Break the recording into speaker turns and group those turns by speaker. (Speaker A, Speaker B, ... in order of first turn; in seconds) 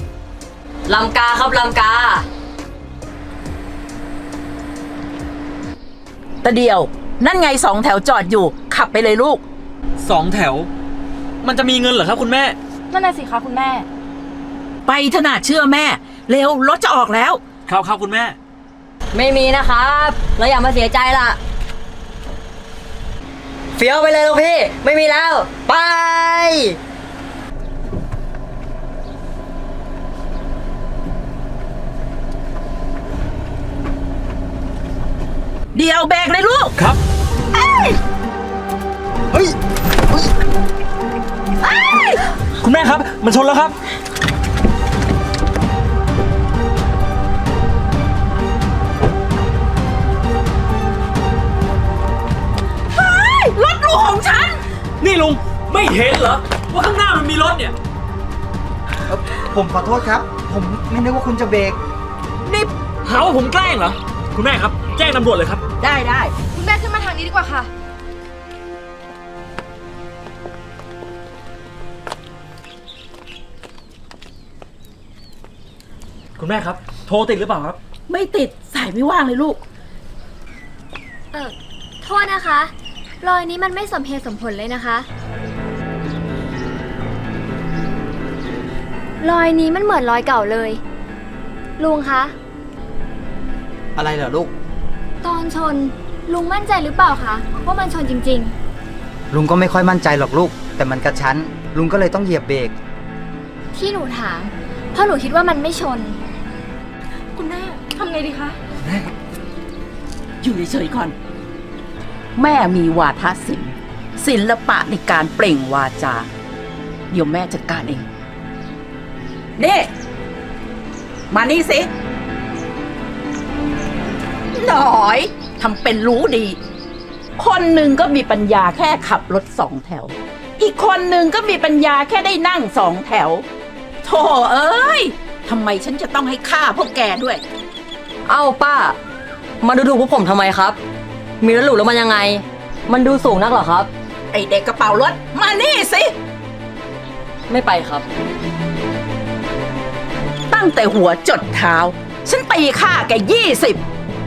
Speaker A: 0.9-2.2, 19.1-21.4, 23.8-26.8, 138.3-138.9, 139.6-140.8, 141.4-143.9, 147.5-148.0
Speaker B: 6.4-9.4, 14.8-17.4, 35.7-36.7, 37.5-38.0, 41.6-42.2, 52.9-54.6, 65.8-66.3, 78.1-79.6, 110.4-111.1, 112.4-116.3, 117.1-118.0, 119.6-119.9, 121.3-121.9, 124.5-126.6, 127.4-133.4, 134.0-137.4, 144.3-146.1, 150.5-153.8
Speaker C: 10.0-10.7, 11.4-12.6, 17.7-18.4, 42.6-43.7, 55.0-57.7, 62.6-65.6, 76.4-77.8
Speaker D: 12.9-13.8, 66.5-67.7, 107.3-108.5
Speaker E: 59.1-61.8, 94.0-94.5, 99.3-102.7
Speaker F: 81.3-85.1, 89.2-90.8, 91.8-92.3, 95.2-98.5, 103.7-106.2